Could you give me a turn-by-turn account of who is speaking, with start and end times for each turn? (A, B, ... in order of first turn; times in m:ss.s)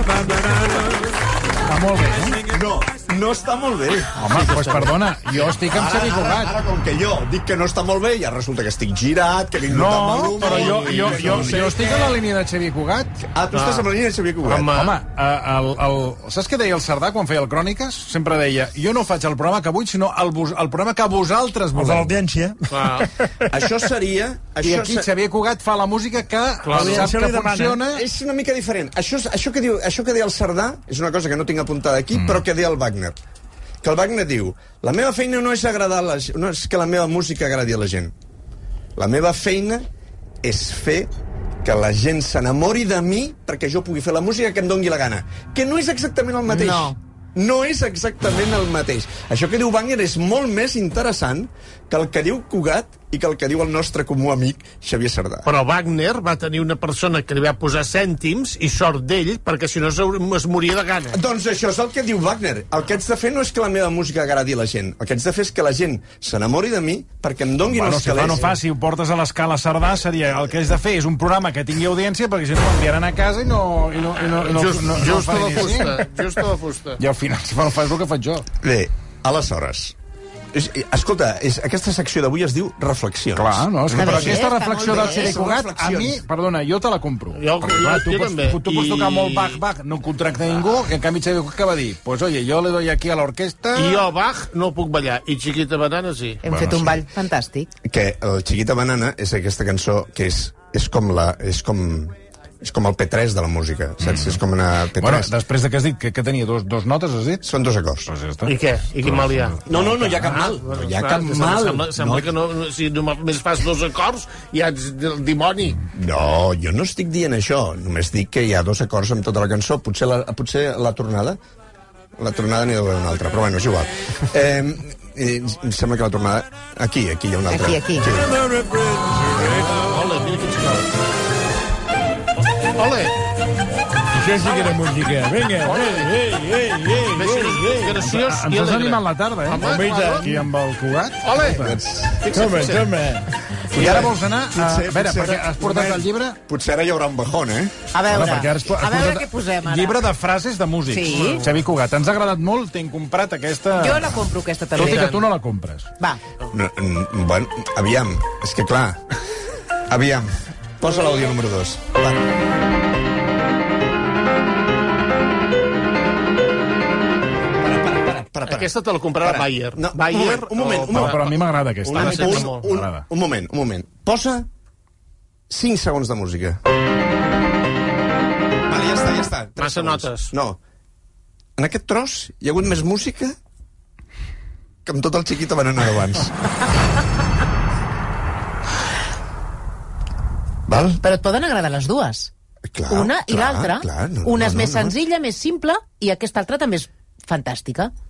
0:01.6-0:02.4 A
0:02.4-0:04.5 B
0:04.1-0:06.5 A
0:04.4-0:04.9 C
0:05.6-0:12.2 B
0:09.7-0:13.2 A
0:10.4-0:11.4 C
0:13.2-0:14.8 B
0:13.5-0:13.8 C
0:14.4-0:15.0 C
0:14.7-0:22.2 A
0:21.7-0:23.4 D
0:22.7-0:23.1 C
0:23.5-0:25.1 B
0:24.6-0:28.0 A
0:26.6-0:27.1 C
0:26.7-0:27.8 D
0:27.8-0:33.2 B
0:32.1-0:32.4 A
0:33.8-0:38.1 B
0:39.0-0:39.9 B
0:40.4-0:41.1 B
0:41.6-0:55.5 B
0:46.5-0:47.0 E
0:55.4-1:01.2 C
1:01.1-1:08.5 B
1:07.7-1:16.3 A
1:14.4-1:17.0 C
1:17.0-1:18.5 A
1:18.6-1:20.0 B
1:20.5-1:26.2 B
1:23.3-1:34.1 A
1:23.9-1:25.4 E
1:27.3-1:29.6 C
1:33.7-1:36.4 C
1:36.4-1:37.7 E
1:36.4-1:37.0 A
1:37.8-1:45.3 B
1:44.0-1:44.4 A
1:45.0-1:47.4 A
1:47.4-1:48.1 B
1:48.1-1:50.3 A
1:48.4-1:49.6 C
1:49.6-1:52.3 B
1:50.1-1:55.8 C
1:55.9-2:01.4 B
2:02.2-2:08.4 B
2:07.5-2:08.1 E
2:09.7-2:10.9 C
2:12.7-2:13.1 C
2:14.1-2:18.0 D
2:15.6-2:16.1 C
2:17.1-2:20.3 C
2:18.0-2:21.8 A
2:19.6-2:20.3 D
2:21.2-2:21.6 C
2:21.5-2:22.2 B
2:22.2-2:22.9 C
2:22.3-2:23.3 D
2:23.7-2:26.4 A
2:23.7-2:27.9 B
2:27.9-2:30.1 E
2:28.1-2:35.9 A
2:30.9-2:31.4 E
2:31.1-2:31.5 C
2:33.8-2:35.2 E
2:34.9-2:35.1 C
2:36.5-2:39.2 B
2:39.9-2:42.3 B
2:47.6-2:51.3 B
2:48.4-2:52.6 C
2:50.9-2:53.0 A
2:51.9-2:54.5 B
2:55.5-2:56.6 B
2:58.7-3:00.6 B
2:59.6-3:00.3 C
3:01.6-3:03.4 B
3:04.8-3:06.4 B
3:10.7-3:11.0 B
3:11.0-3:12.3 E
3:12.7-3:15.0 B
3:12.9-3:17.9 E